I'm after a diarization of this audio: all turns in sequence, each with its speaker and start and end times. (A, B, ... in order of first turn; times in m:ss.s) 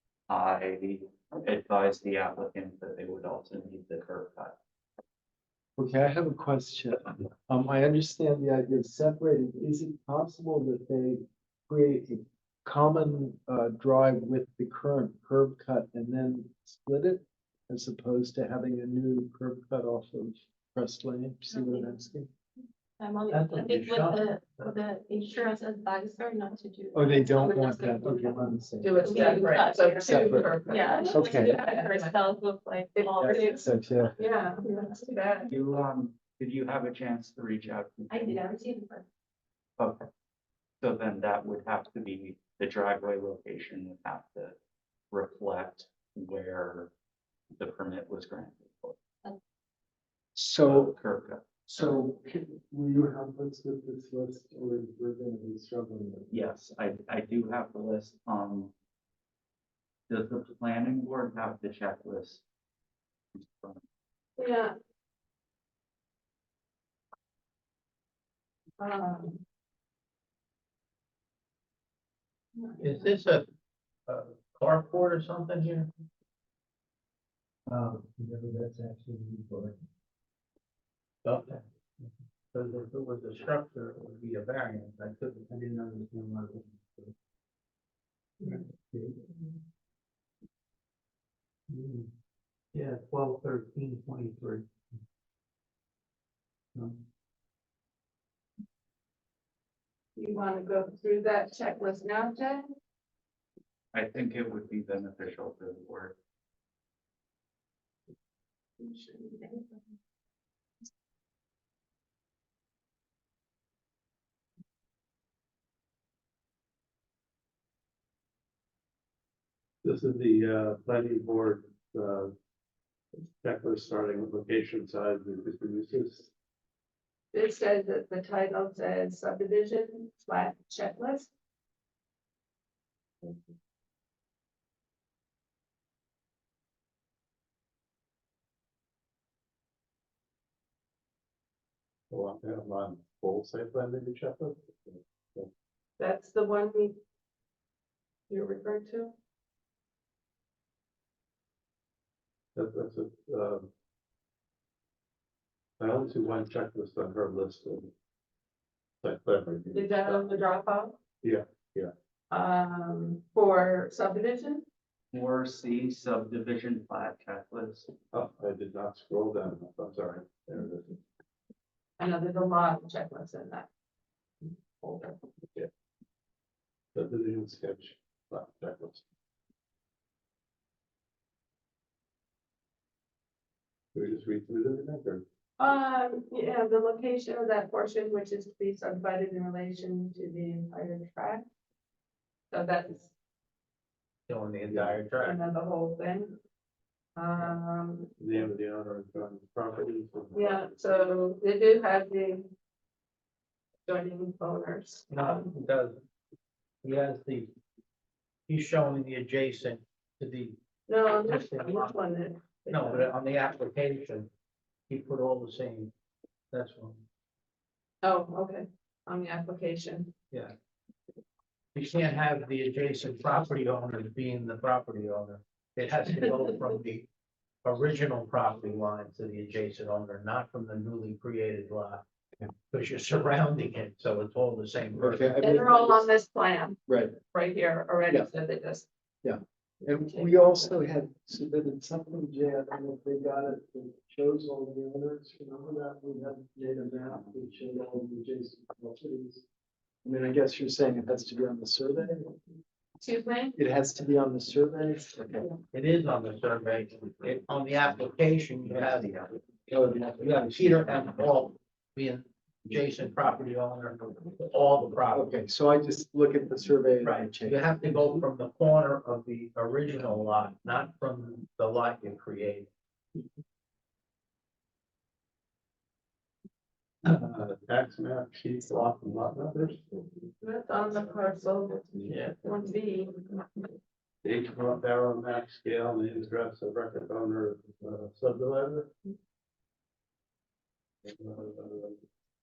0:00.3-0:04.6 A
0:05.8-0:22.3 B
0:21.6-0:21.9 C
0:23.0-0:28.2 C
0:23.3-0:24.7 D
0:26.9-0:29.5 B
0:27.5-0:28.2 E
0:28.8-0:32.1 E
0:29.0-0:33.8 C
0:30.0-0:31.6 B
0:33.0-0:33.5 E
0:33.2-0:34.1 B
0:34.2-0:35.5 E
0:34.6-0:35.0 C
0:35.5-0:38.4 A
0:38.1-0:39.0 C
0:39.8-0:40.1 A
0:40.8-0:44.6 A
0:45.1-0:46.9 A
0:47.6-0:49.0 A
0:50.4-0:50.9 B
0:50.6-0:52.0 A
0:51.7-0:56.3 B
0:56.3-0:58.7 A
1:00.1-1:02.4 A
1:03.4-1:03.8 A
1:04.4-1:04.8 E
1:08.8-1:09.4 E
1:12.8-1:13.5 D
1:14.1-1:15.9 D
1:17.7-1:19.7 B
1:21.2-1:27.0 D
1:28.4-1:29.0 D
1:31.7-1:32.1 D
1:32.7-1:34.7 D
1:40.2-1:42.7 E
1:43.9-1:46.2 A
1:48.8-1:49.6 E
1:59.8-2:02.3 F
2:03.2-2:06.3 F
2:07.3-2:11.3 E
2:22.1-2:25.5 F
2:26.0-2:27.0 E
2:28.3-2:29.1 E
2:32.6-2:33.7 F
2:35.8-2:37.9 F
2:39.0-2:40.3 F
2:39.7-2:41.0 E
2:41.2-2:41.9 F
2:42.3-2:44.7 E
2:45.1-2:47.9 A
2:48.1-2:51.0 F
2:52.0-2:53.7 E
2:54.4-2:55.2 E
2:56.9-2:59.0 F
3:03.9-3:05.2 F
3:05.6-3:11.5 E
3:12.5-3:13.1 E
3:14.3-3:15.4 D
3:15.2-3:16.4 E
3:17.2-3:18.1 E
3:18.2-3:20.6 F
3:20.3-3:22.5 E
3:23.9-3:25.4 E
3:25.1-3:26.0 D
3:26.8-3:27.5 D
3:28.5-3:30.6 D
3:30.9-3:33.1 E
3:31.2-3:32.0 D
3:32.7-3:34.3 D
3:34.9-3:35.9 D
3:36.5-3:37.0 D
3:38.0-3:40.1 E
3:41.8-3:47.1 D
3:47.6-3:52.0 D
3:52.7-3:55.3 D
3:55.0-3:56.0 B
3:55.4-3:58.9 E
3:56.9-3:57.2 B
3:59.2-4:09.4 B
4:00.1-4:00.6 E
4:10.0-4:12.4 B
4:13.0-4:13.6 E
4:13.6-4:15.5 B
4:15.7-4:25.3 D
4:19.7-4:20.9 B
4:25.1-4:28.0 B
4:27.0-4:32.7 D
4:37.1-4:39.9 F
4:40.4-4:43.6 E
4:44.2-4:48.9 F
4:51.0-4:52.0 F